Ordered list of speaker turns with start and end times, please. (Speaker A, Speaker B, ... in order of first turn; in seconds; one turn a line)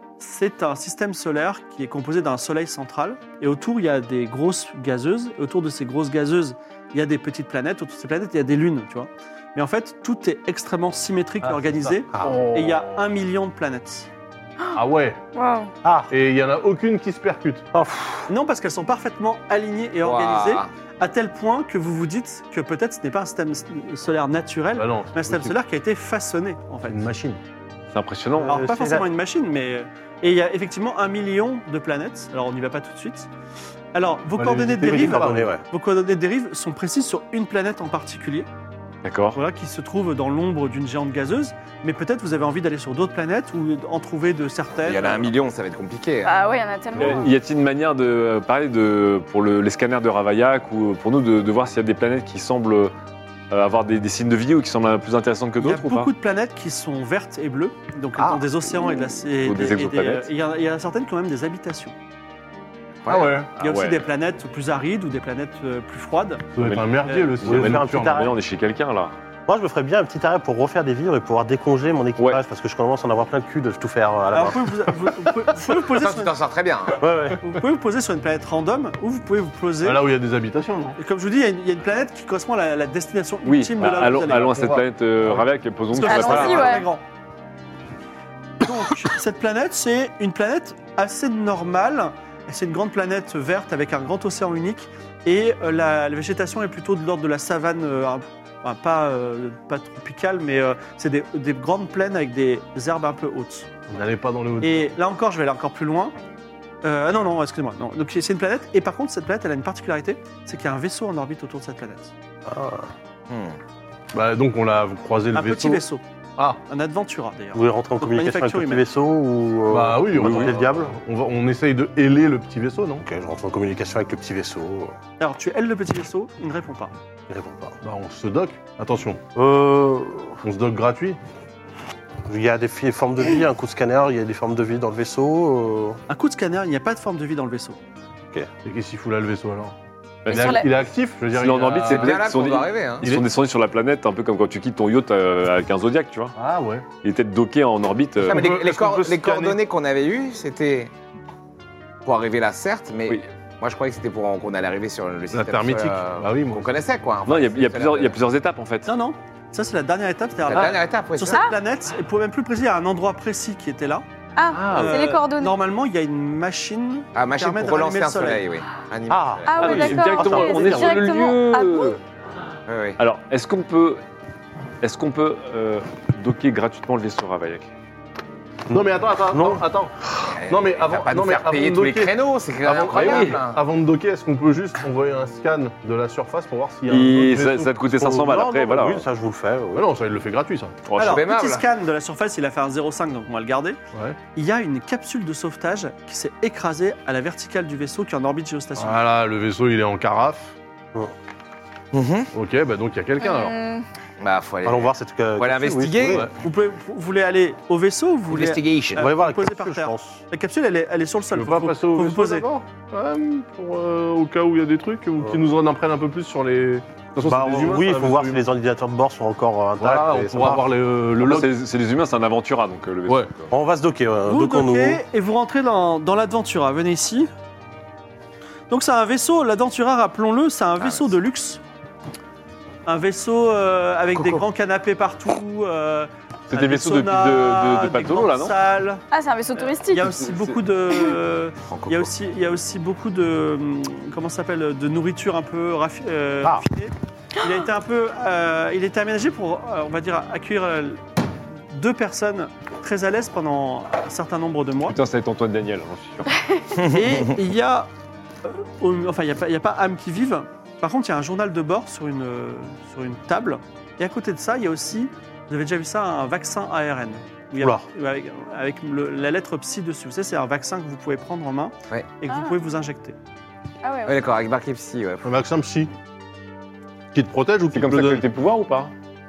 Speaker A: 0.2-14.1
Speaker B: 11.4-13.1
Speaker C: 12.1-12.4
Speaker B: 14.7-15.2
Speaker D: 15.3-15.7
Speaker C: 15.8-16.1
Speaker B: 16.1-17.6
Speaker C: 17.7-18.3
Speaker A: 18.3-27.0
Speaker E: 20.0-20.7
Speaker B: 24.7-25.6
Speaker B: 26.8-27.4
Speaker F: 27.9-28.6
Speaker C: 28.4-29.1
Speaker A: 28.4-33.3
Speaker A: 33.9-38.5
Speaker B: 34.4-35.5
Speaker C: 34.8-35.6
Speaker F: 39.0-39.4
Speaker A: 39.3-45.3
Speaker E: 44.8-46.5
Speaker D: 46.2-47.3
Speaker F: 47.0-52.9
Speaker F: 53.5-56.1
Speaker A: 55.6-61.9
Speaker C: 58.2-58.5
Speaker F: 59.4-60.3
Speaker E: 63.0-63.4
Speaker B: 63.0-63.5
Speaker A: 63.6-66.5
Speaker F: 63.6-64.0
Speaker B: 66.5-68.3
Speaker F: 66.6-69.1
Speaker A: 67.0-67.4
Speaker C: 67.4-68.3
Speaker C: 69.5-74.7
Speaker A: 74.3-76.3
Speaker E: 75.9-77.0
Speaker C: 77.0-77.4
Speaker A: 77.4-80.0
Speaker B: 79.8-81.0
Speaker A: 81.0-84.7
Speaker F: 83.4-86.8
Speaker B: 84.2-85.5
Speaker A: 85.9-87.0
Speaker D: 86.0-86.9
Speaker A: 88.6-103.7
Speaker B: 103.9-104.9
Speaker A: 104.6-106.1
Speaker A: 106.8-112.1
Speaker C: 112.5-112.9
Speaker E: 113.3-113.6
Speaker B: 114.1-115.8
Speaker A: 115.3-116.0
Speaker A: 116.7-118.9
Speaker C: 117.5-120.9
Speaker B: 119.7-123.0
Speaker F: 120.1-120.5
Speaker C: 123.0-124.9
Speaker A: 125.2-126.9
Speaker C: 127.3-127.8
Speaker B: 127.8-129.2
Speaker C: 129.3-130.4
Speaker B: 130.4-131.2
Speaker C: 132.3-136.0
Speaker A: 136.1-137.8
Speaker B: 138.6-139.7
Speaker F: 140.2-140.7
Speaker B: 140.3-142.2
Speaker D: 140.3-140.7
Speaker F: 141.3-146.3
Speaker E: 141.9-143.1
Speaker B: 143.0-143.3
Speaker B: 146.3-146.8
Speaker F: 147.0-148.7
Speaker B: 148.2-149.6
Speaker E: 148.2-150.9
Speaker E: 152.0-158.1
Speaker B: 155.3-156.7
Speaker F: 157.2-158.9
Speaker A: 158.8-164.0
Speaker E: 160.5-161.4
Speaker D: 161.3-161.6
Speaker D: 164.3-165.5
Speaker A: 164.7-168.4
Speaker E: 167.1-169.9
Speaker C: 169.1-171.0
Speaker D: 169.4-172.0
Speaker F: 169.6-172.0
Speaker E: 172.7-173.0
Speaker F: 173.0-174.0
Speaker F: 174.8-177.7
Speaker C: 178.7-179.6
Speaker B: 178.7-187.8
Speaker E: 180.2-183.6
Speaker F: 182.9-183.4
Speaker F: 186.9-189.0
Speaker C: 188.0-189.9
Speaker B: 189.7-190.8
Speaker F: 190.9-191.2
Speaker A: 191.0-193.8
Speaker E: 191.0-191.7
Speaker A: 194.3-199.0
Speaker B: 198.8-200.6
Speaker E: 201.9-202.3
Speaker B: 202.3-203.6
Speaker D: 203.2-203.8
Speaker E: 204.2-206.3
Speaker C: 204.6-206.3
Speaker A: 206.4-212.4
Speaker E: 208.3-209.1
Speaker C: 208.9-210.2
Speaker B: 211.3-218.4
Speaker C: 217.2-220.6
Speaker B: 219.8-221.5
Speaker F: 221.2-223.5
Speaker C: 223.5-225.0
Speaker A: 224.3-227.3
Speaker A: 228.7-231.6
Speaker E: 230.8-231.1
Speaker A: 232.8-239.0
Speaker E: 234.1-234.4
Speaker F: 236.5-238.6
Speaker D: 239.1-240.2
Speaker A: 239.6-251.0
Speaker F: 240.3-240.5
Speaker E: 241.7-242.1
Speaker A: 251.7-255.0
Speaker F: 254.9-256.3
Speaker E: 256.8-257.3
Speaker A: 256.8-257.9
Speaker A: 258.4-273.1
Speaker C: 267.6-267.9
Speaker D: 272.3-272.5
Speaker D: 273.8-274.2
Speaker E: 274.1-275.3
Speaker B: 275.2-275.9
Speaker B: 277.1-278.2
Speaker F: 277.7-278.9